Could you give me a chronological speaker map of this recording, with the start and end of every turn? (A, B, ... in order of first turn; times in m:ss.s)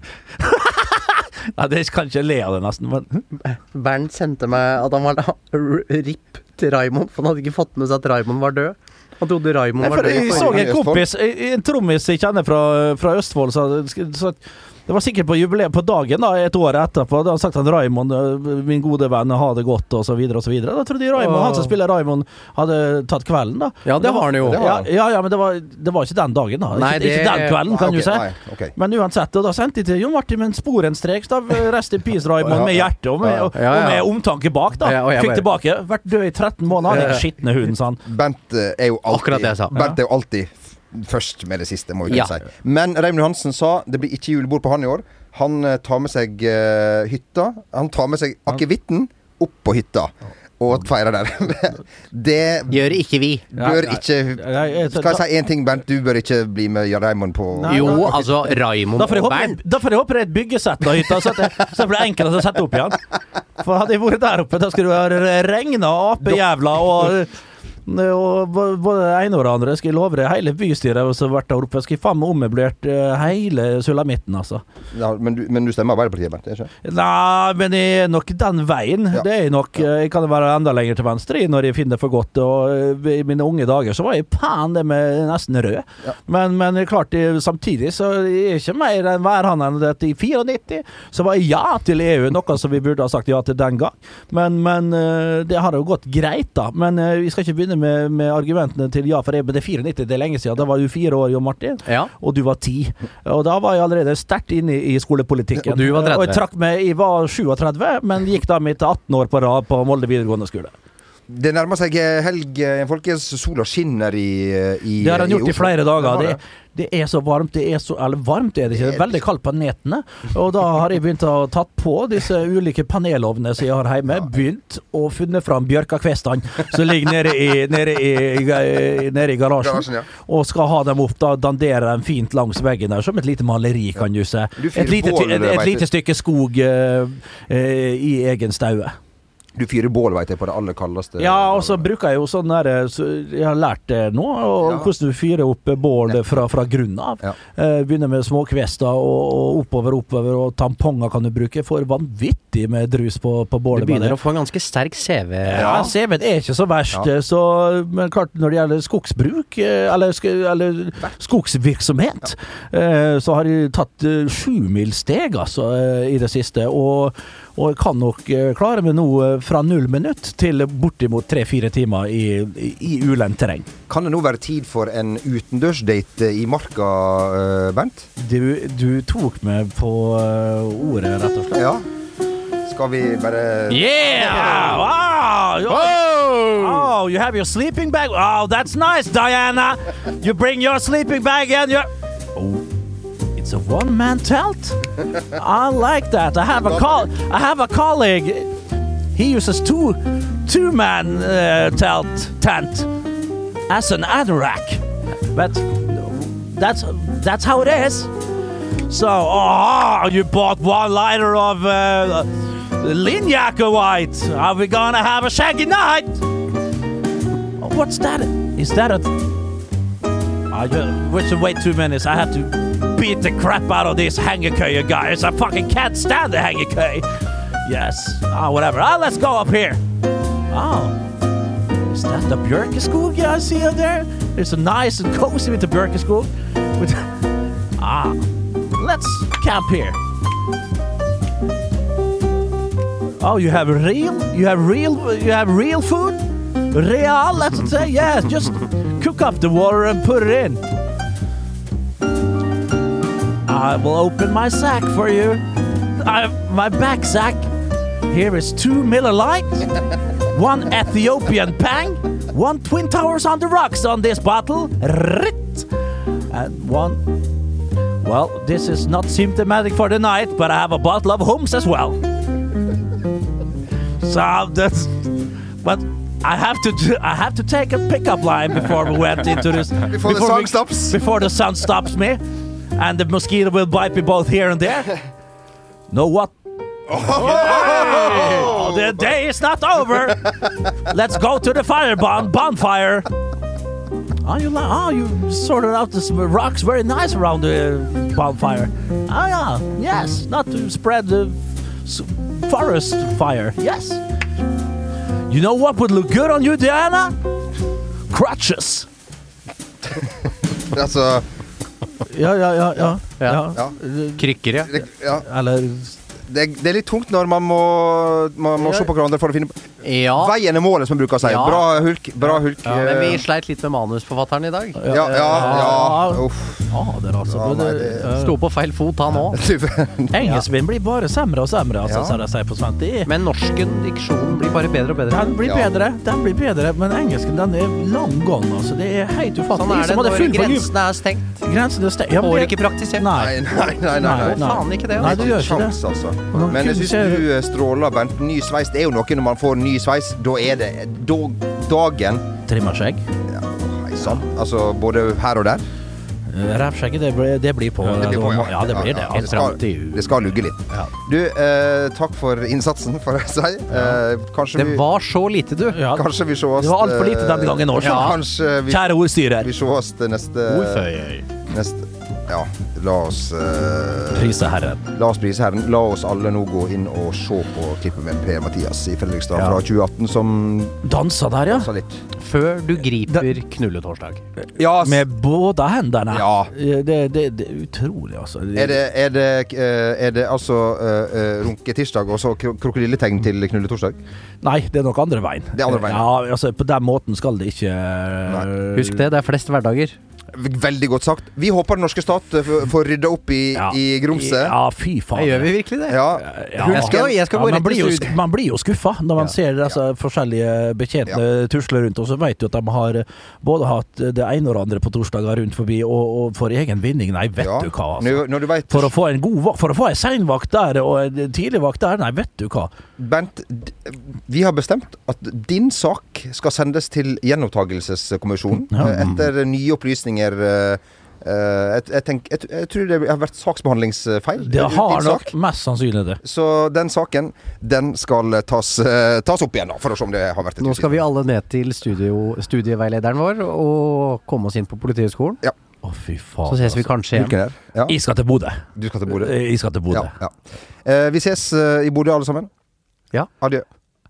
0:00.4-0:03.2 A
0:03.4-0:10.7 B
0:09.8-0:11.0 C
0:09.8-0:38.0 A
0:21.2-0:21.7 B
0:23.8-0:24.8 B
0:24.4-0:24.7 C
0:26.7-0:27.6 B
0:27.7-0:28.7 C
0:32.4-0:33.5 C
0:33.5-0:34.1 B
0:34.8-0:35.4 B
0:36.9-0:37.2 B
0:38.0-0:52.8 C
0:39.1-0:39.8 B
0:39.7-0:40.0 A
0:42.1-0:42.3 B
0:52.7-0:53.5 B
0:53.6-0:55.2 A
0:53.6-0:58.3 C
0:57.5-0:58.2 A
0:57.7-0:59.6 B
0:59.0-1:03.0 A
1:03.6-1:07.3 A
1:07.8-1:14.6 A
1:14.9-1:16.7 C
1:16.8-1:50.7 A
1:41.8-1:42.1 B
1:45.6-1:46.4 B
1:51.3-1:56.4 C
1:55.0-2:18.9 A
1:58.7-1:59.2 C
2:09.6-2:10.1 C
2:14.6-2:15.8 C
2:19.6-2:21.9 C
2:21.2-2:34.2 A
2:24.6-2:24.9 C
2:33.7-2:35.9 B
2:35.5-2:53.7 A
2:35.6-2:35.9 C
2:53.9-2:58.1 C
2:58.2-3:01.7 A
3:01.5-3:01.8 C
3:02.6-3:04.8 C
3:03.7-3:12.6 A
3:05.8-3:06.5 B
3:13.3-3:18.5 A
3:19.1-3:22.9 A
3:23.7-3:28.1 A
3:28.9-3:36.2 A
3:37.6-3:39.2 A
3:40.5-3:49.8 A
3:50.5-3:51.0 A
3:51.9-4:00.0 A
4:03.2-4:10.6 A
4:13.4-4:17.4 A
4:18.1-4:25.7 A
4:26.3-4:27.0 A
4:28.0-4:32.0 A
4:34.0-4:42.2 A
4:39.8-4:41.0 C
4:42.7-4:45.0 A
4:45.9-4:46.3 A
4:46.9-4:53.1 A
4:46.9-4:49.0 C
4:54.2-5:04.0 A
5:05.3-5:07.2 A
5:08.1-5:08.9 A
5:10.0-5:11.2 C
5:12.0-5:14.3 A
5:13.2-5:13.5 B
5:14.2-5:14.7 B
5:14.6-5:15.2 C
5:15.2-5:16.0 A
5:16.2-5:23.2 C
5:18.6-5:18.9 A
5:19.8-5:20.3 B
5:21.2-5:21.7 B
5:22.6-5:24.8 B
5:24.8-5:28.3 A
5:24.9-5:26.7 C
5:25.4-5:25.8 B
5:27.3-5:28.1 C
5:28.1-5:29.4 B
5:29.3-5:30.4 C
5:30.1-5:33.1 A
5:31.8-5:32.2 C
5:33.0-5:35.3 B
5:35.1-5:40.7 A
5:35.4-5:35.7 C
5:39.5-5:41.4 B
5:41.4-5:45.8 A
5:42.1-5:43.1 B
5:43.1-5:52.2 C
5:44.0-5:45.4 B
5:46.3-5:47.2 A
5:52.5-5:53.0 A
5:53.3-5:55.6 C
5:56.3-5:59.4 A
5:57.8-6:04.8 C
5:58.9-6:00.1 B
6:04.5-6:05.8 B
6:05.7-6:06.0 A
6:05.8-6:10.9 C
6:06.6-6:09.5 A
6:07.8-6:08.2 B
6:10.5-6:11.2 B
6:11.5-6:14.3 C
6:14.1-6:14.8 A
6:14.9-6:20.8 C
6:19.3-6:19.6 A
6:20.8-6:21.7 A
6:21.5-6:22.0 C
6:22.2-6:24.2 B
6:23.1-6:23.3 A
6:24.6-6:25.0 C
6:24.8-6:28.8 A
6:26.1-6:26.5 C
6:28.5-6:34.0 C
6:34.4-6:39.0 A
6:35.5-6:36.1 C
6:38.7-6:40.0 B
6:40.3-6:44.5 C
6:43.5-6:45.5 A
6:45.2-6:48.1 B
6:45.9-6:47.2 C
6:46.1-7:02.7 A
6:57.4-6:58.9 C
7:03.0-7:15.3 C
7:08.7-7:09.2 A
7:14.4-7:16.2 A
7:16.2-7:21.0 C
7:20.6-7:25.4 B
7:25.8-7:26.9 A
7:26.5-7:27.3 B
7:27.1-7:28.0 C
7:27.8-7:30.1 A
7:28.8-7:29.4 C
7:29.9-7:32.5 C
7:33.4-7:33.6 C